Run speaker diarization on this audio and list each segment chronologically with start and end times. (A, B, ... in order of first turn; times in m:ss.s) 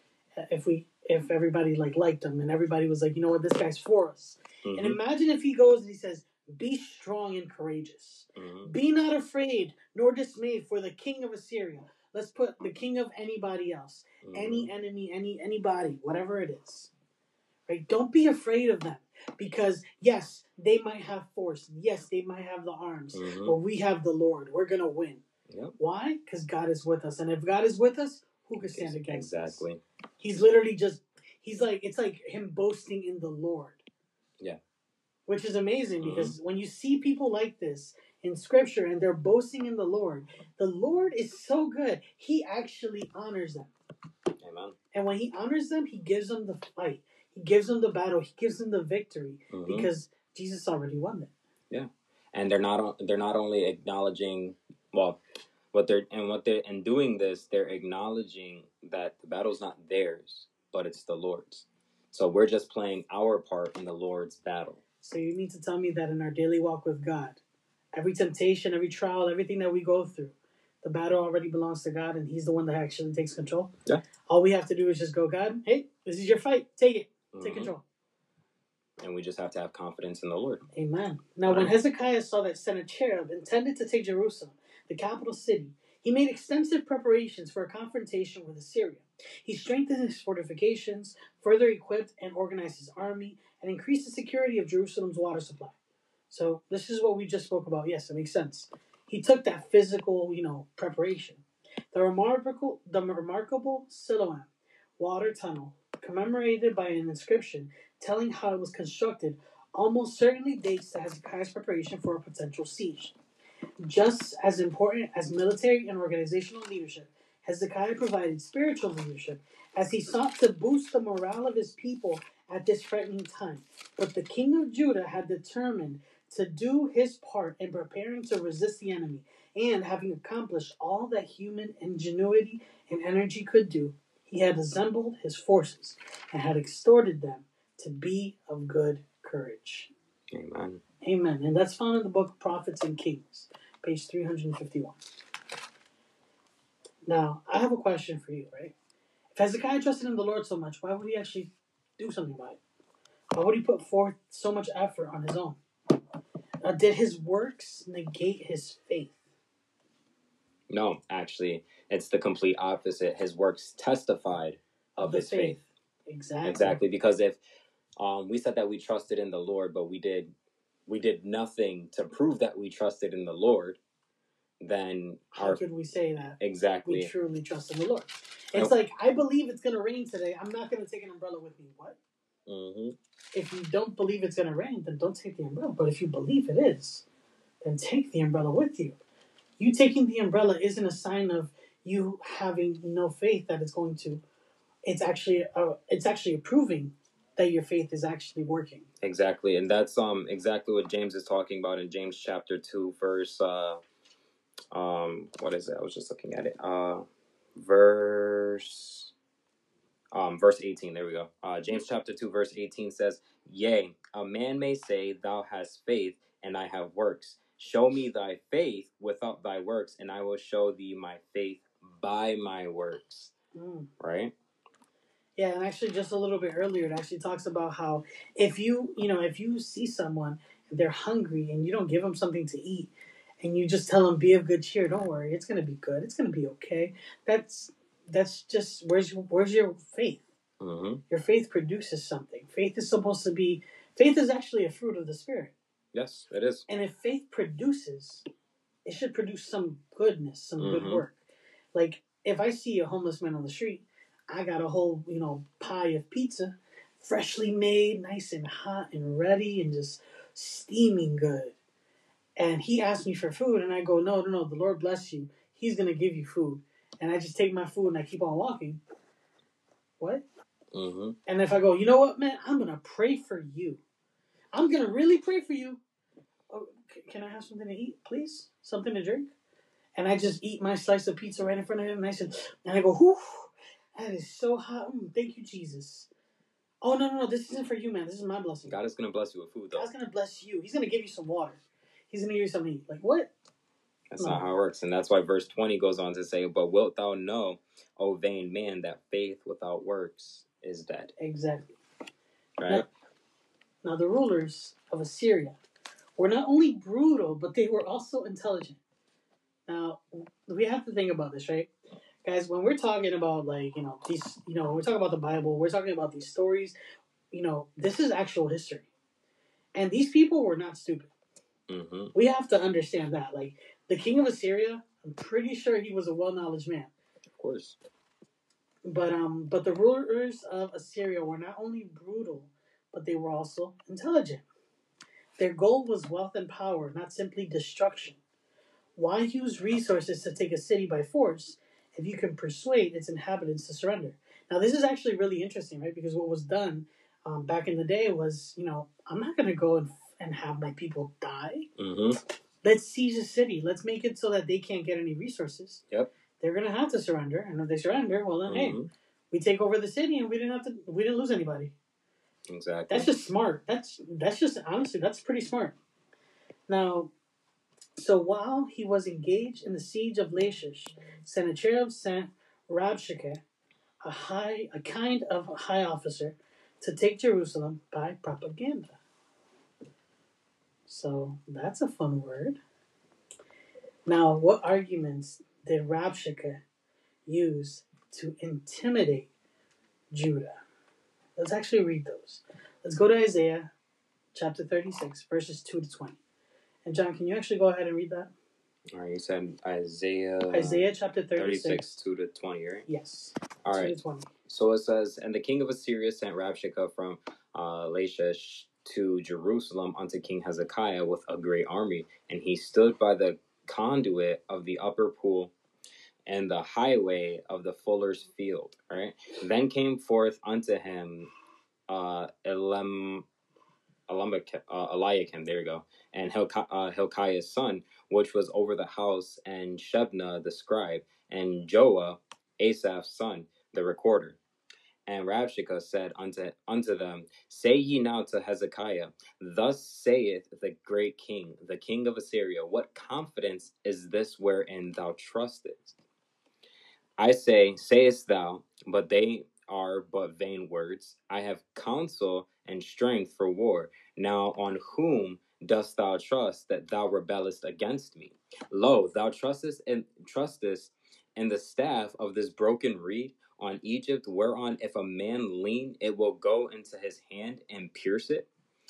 0:00.4-0:16.9 A
0:04.6-0:05.0 B
0:08.4-0:08.7 B
0:14.2-0:14.7 B
0:17.7-0:25.2 A
0:23.1-0:23.6 B
0:25.5-0:25.8 B
0:25.8-0:29.6 A
0:28.6-0:29.8 B
0:30.2-0:33.8 A
0:35.3-0:43.7 A
0:36.0-0:36.4 B
0:44.4-0:44.8 B
0:44.9-0:51.3 A
0:49.5-0:49.9 B
0:51.7-0:55.2 B
0:55.7-1:04.8 B
1:05.0-1:07.4 A
1:08.0-1:13.7 A
1:14.3-1:17.8 A
1:17.3-1:17.7 B
1:19.0-1:20.6 B
1:20.7-1:35.8 A
1:21.5-1:21.7 B
1:36.3-1:53.1 A
1:53.8-2:19.9 A
2:20.3-2:20.8 B
2:21.0-2:25.0 A
2:27.1-2:28.7 A
2:29.4-2:32.6 A
2:33.3-2:35.6 A
2:36.6-2:39.2 A
2:40.7-2:45.6 B
2:45.0-2:46.8 A
2:46.4-2:47.4 B
2:48.0-2:50.3 B
2:50.9-2:53.8 B
2:54.6-2:55.6 B
2:55.3-3:02.0 A
2:56.4-2:57.1 B
3:02.5-3:03.0 B
3:03.3-3:07.0 A
3:07.6-3:09.0 A
3:09.6-3:14.2 A
3:14.8-3:18.9 A
3:19.0-3:23.8 B
3:24.7-3:27.0 B
3:27.6-3:29.1 B
3:30.1-3:43.3 B
3:43.5-3:43.9 A
3:44.0-3:44.3 B
3:45.4-3:52.9 A
3:53.4-4:00.2 A
4:00.6-4:01.0 B
4:01.1-4:05.5 A
4:05.9-4:06.6 B
4:06.7-4:08.2 A
4:08.9-4:11.2 A
4:10.6-4:11.0 B
4:11.7-4:21.5 A
4:22.4-4:28.8 A
4:30.0-4:30.2 A
4:30.7-4:31.2 B
4:31.2-4:33.8 A
4:34.5-4:35.8 A
4:36.5-4:39.3 A
4:40.0-4:46.1 A
4:46.8-4:48.8 A
4:48.7-4:49.9 B
4:49.7-4:53.3 A
4:54.1-5:01.1 B
5:01.2-5:01.8 A
5:02.6-5:02.9 B
5:03.8-5:05.6 A
5:06.2-5:08.8 A
5:09.7-5:11.7 A
5:12.2-5:16.8 A
5:17.3-5:18.9 A
5:19.8-5:21.1 A
5:21.7-5:22.1 B
5:22.1-5:26.9 A
5:27.4-5:27.8 B
5:28.8-5:34.4 A
5:35.4-5:38.2 A
5:39.0-5:51.7 A
5:51.8-5:52.2 B
5:52.6-5:55.8 A
5:56.4-5:58.8 A
5:58.5-5:58.9 B
5:59.3-6:01.8 A
6:02.5-6:03.1 B
6:02.9-6:05.8 A
6:06.7-6:07.1 A
6:08.0-6:13.4 A
6:14.0-6:19.0 A
6:20.9-6:22.6 A
6:24.1-6:26.6 A
6:27.2-6:29.3 A
6:30.1-6:30.6 A
6:31.4-6:33.7 A
6:34.3-6:36.2 A
6:36.8-6:38.3 A
6:38.9-6:40.8 B
6:40.5-6:42.0 A
6:41.4-6:42.9 B
6:42.9-6:44.3 A
6:43.6-6:44.0 B
6:44.5-6:55.5 B
6:56.2-7:01.3 B
7:01.9-7:03.2 B
7:04.1-7:14.4 B
7:15.1-7:26.0 B
7:27.2-7:48.5 B